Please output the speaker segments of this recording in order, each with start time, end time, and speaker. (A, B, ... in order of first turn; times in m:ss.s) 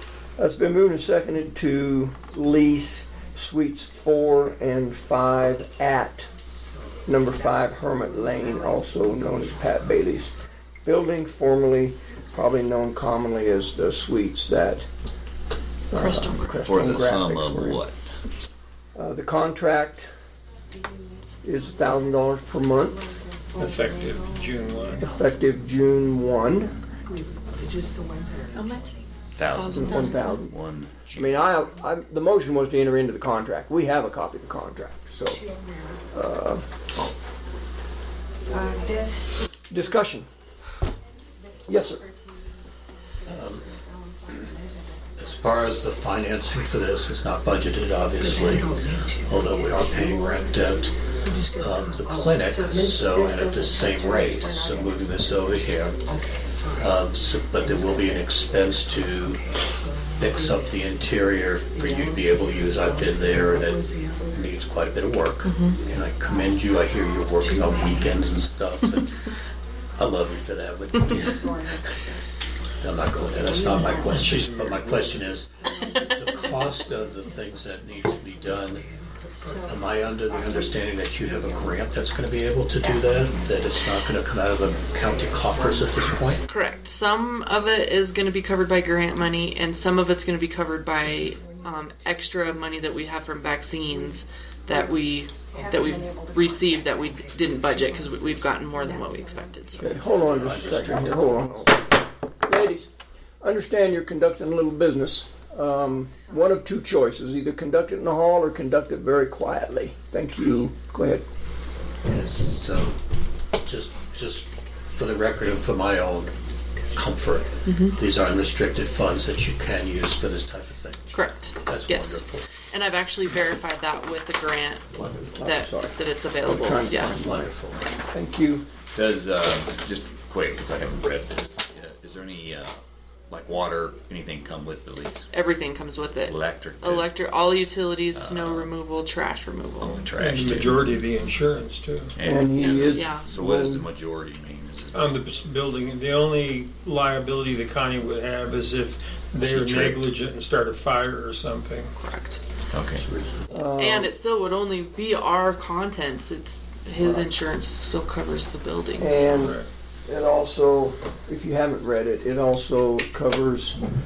0:00.4-0:06.3 A
0:07.0-0:10.3 A
0:08.4-0:08.8 B
0:10.8-0:14.8 A
0:15.9-0:17.8 A
0:15.9-0:16.9 C
0:16.6-0:18.0 D
0:19.0-0:20.1 A
0:21.4-0:23.1 A
0:23.6-0:24.3 B
0:23.6-0:25.0 E
0:25.0-0:26.8 A
0:27.5-0:28.9 B
0:29.3-0:31.5 D
0:29.5-0:30.3 C
0:29.7-0:30.6 A
0:31.1-0:35.4 A
0:36.1-0:36.7 A
0:38.5-0:39.3 B
0:39.7-0:40.3 A
0:41.7-0:42.0 A
0:43.3-0:43.7 F
0:44.3-0:44.8 B
0:45.2-0:56.0 F
0:48.3-0:49.4 B
0:52.3-0:55.0 B
0:56.7-0:59.6 F
0:57.8-0:58.1 B
1:00.2-1:09.2 F
1:03.4-1:04.2 B
1:05.4-1:05.8 C
1:07.7-1:07.9 B
1:10.0-1:11.6 F
1:11.2-1:11.6 B
1:12.8-1:18.9 F
1:13.7-1:14.2 B
1:14.1-1:14.9 D
1:19.5-1:26.4 F
1:26.4-1:40.2 C
1:35.6-1:36.2 B
1:39.8-1:41.8 A
1:40.0-1:41.5 F
1:42.4-1:42.9 A
1:43.4-1:51.2 A
1:52.0-1:53.0 F
1:53.6-1:56.3 F
1:56.9-2:01.1 F
1:57.6-1:58.0 C
2:01.1-2:04.9 C
2:01.6-2:02.5 F
2:04.9-2:05.4 F
2:05.4-2:08.7 A
2:05.4-2:07.1 C
2:07.2-2:07.8 F
2:08.9-2:12.8 D
2:13.3-2:15.3 D
2:15.3-2:20.0 C
2:16.3-2:17.1 D
2:18.1-2:18.7 D
2:19.8-2:20.9 D
2:20.2-2:22.1 E
2:22.1-2:25.1 D
2:22.2-2:23.8 A
2:22.9-2:23.3 C
2:24.9-2:31.9 E
2:29.4-2:30.0 D
2:32.0-2:32.4 C
2:32.7-2:33.0 D
2:33.0-2:33.4 F
2:33.5-2:34.1 A
2:33.6-2:39.5 C
2:37.0-2:37.3 A
2:39.0-2:43.8 A
2:39.2-2:39.7 E